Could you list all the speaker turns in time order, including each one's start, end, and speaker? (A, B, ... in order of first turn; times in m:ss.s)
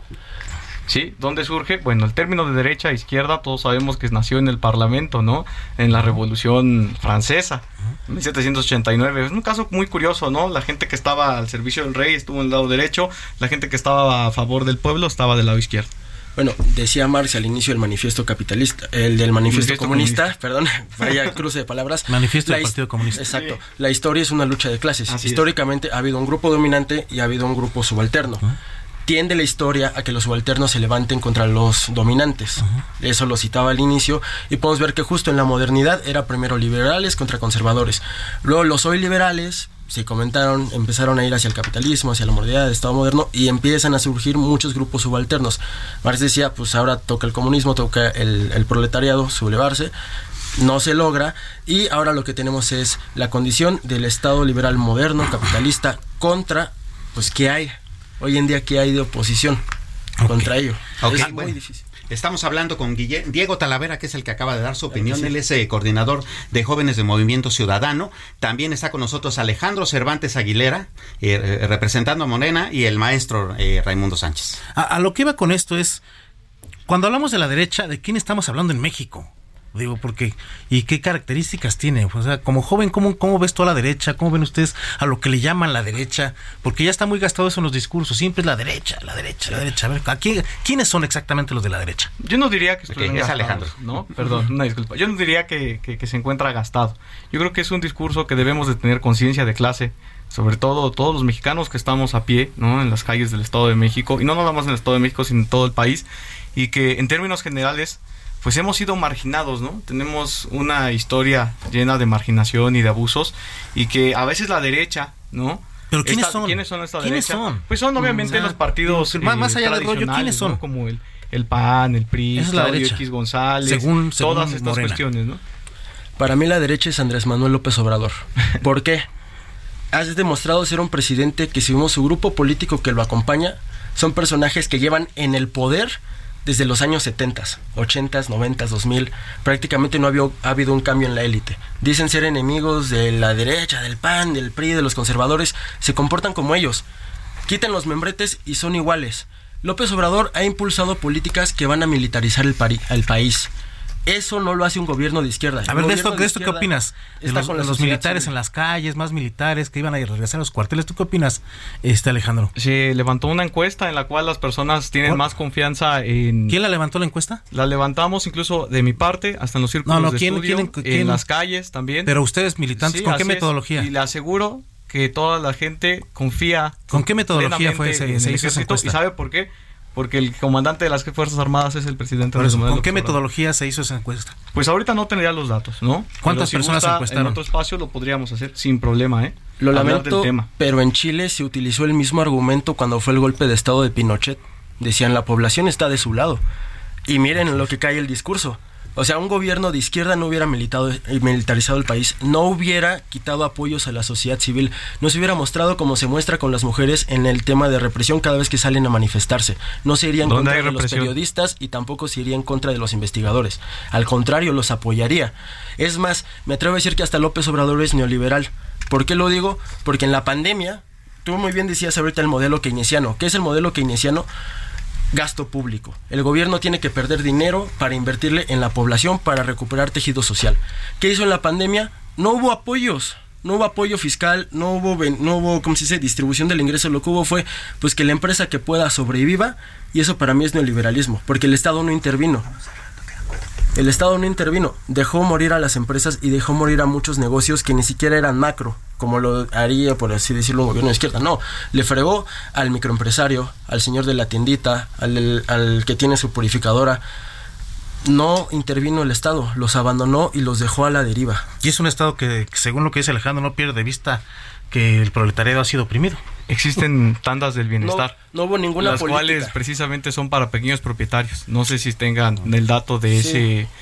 0:00.9-0:15.9 A
0:16.4-0:28.4 B
0:19.5-0:20.3 A
0:22.1-0:23.2 C
0:23.2-0:23.6 A
0:25.1-0:25.5 A
0:29.1-0:49.9 B
0:50.6-0:59.6 B
1:00.2-1:00.5 C
1:00.3-1:01.8 B
1:01.0-1:01.6 D
1:02.1-1:14.6 D
1:04.9-1:05.3 B
1:14.7-1:16.0 C
1:16.9-1:32.1 C
1:32.2-1:46.0 A
1:32.9-1:33.8 D
1:46.6-2:05.4 A
1:55.9-2:00.6 C
2:02.4-2:03.0 C
2:03.6-2:05.0 C
2:06.2-2:09.1 B
2:09.9-2:26.8 B
2:27.5-2:33.5 B
2:34.1-2:36.7 B
2:35.7-2:42.5 C
2:37.2-2:38.3 B
2:42.6-2:46.6 A
2:45.0-2:45.3 C
2:46.5-2:47.4 C
2:47.5-2:52.1 A
2:49.8-2:51.2 C
2:52.1-2:53.9 C
2:52.8-3:03.2 A
2:56.9-2:59.0 C
3:02.4-3:04.4 C
3:04.5-3:10.5 A
3:06.2-3:07.4 C
3:09.6-3:16.4 B
3:17.1-3:44.3 B
3:30.2-3:31.1 A
3:45.1-4:02.5 B
4:03.8-4:17.0 B
4:18.0-4:21.5 B
4:21.6-4:26.2 C
4:26.5-4:28.2 A
4:27.8-4:29.6 B
4:28.8-4:33.7 A
4:33.2-4:33.4 B